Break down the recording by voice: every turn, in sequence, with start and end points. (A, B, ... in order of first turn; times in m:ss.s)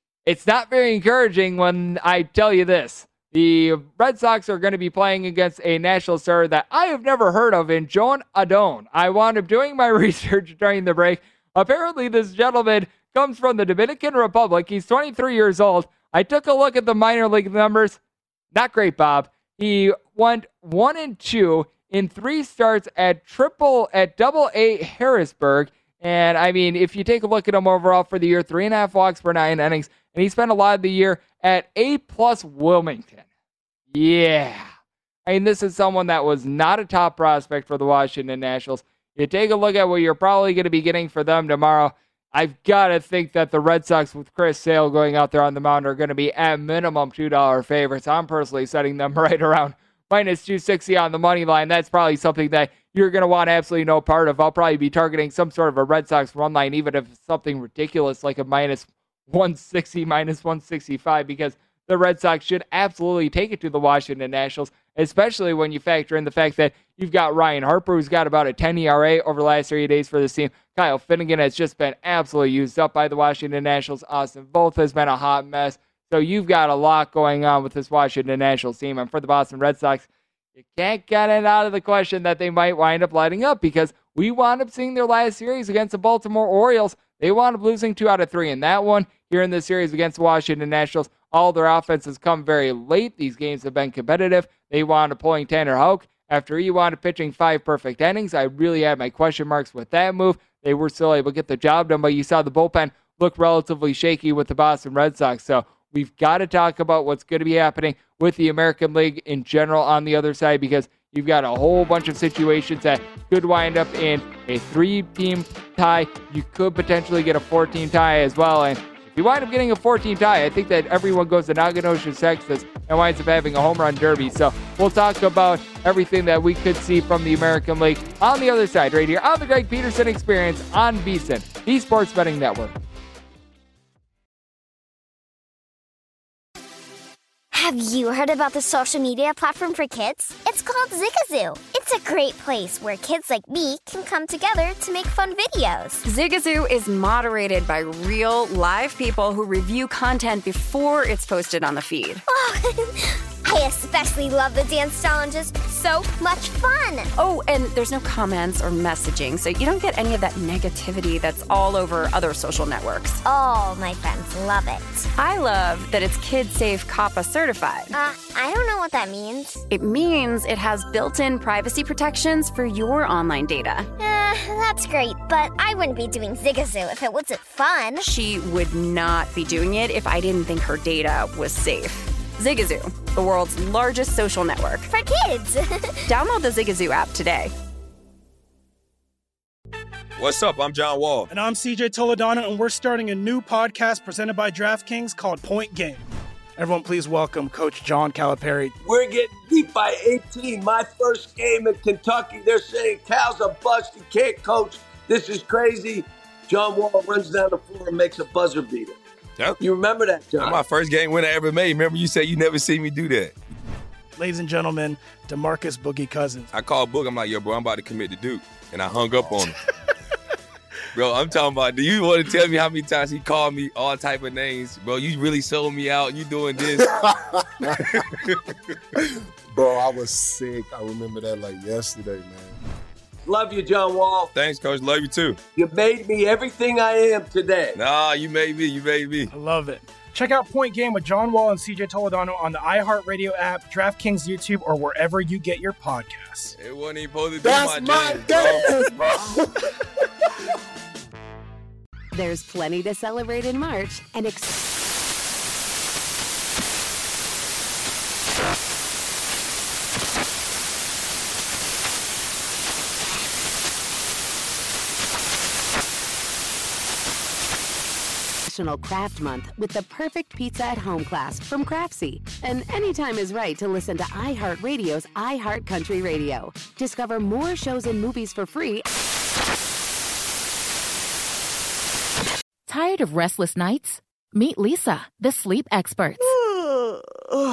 0:00.2-0:18.0 A
0:18.5-0:33.2 A
0:33.9-0:34.7 A
0:35.3-1:20.1 A
1:20.6-2:12.7 A
2:17.5-2:26.0 B
2:26.0-2:32.2 C
2:32.3-2:37.1 B
2:37.2-2:43.2 C
2:43.2-2:45.1 B
2:45.2-2:47.9 C
2:47.9-2:49.6 B
2:49.7-2:53.9 C
2:54.0-2:58.1 B
2:58.0-3:04.9 C
3:04.9-3:06.1 B
3:06.1-3:07.5 C
3:10.2-3:11.3 D
3:11.3-3:18.7 E
3:18.8-3:29.0 F
3:29.6-3:30.6 F
3:30.4-3:33.4 D
3:34.2-3:36.5 E
3:36.5-3:39.6 D
3:41.0-3:47.0 D
3:47.0-3:47.8 G
3:48.0-3:48.4 D
3:49.5-3:52.6 G
3:53.3-3:54.3 F
3:54.4-3:55.4 D
3:55.6-3:57.8 F
3:57.8-3:59.3 D
3:59.3-4:06.6 E
4:06.6-4:08.7 D
4:07.4-4:09.4 G
4:12.1-4:14.7 H
4:28.5-4:38.9 H
4:42.7-4:46.4 I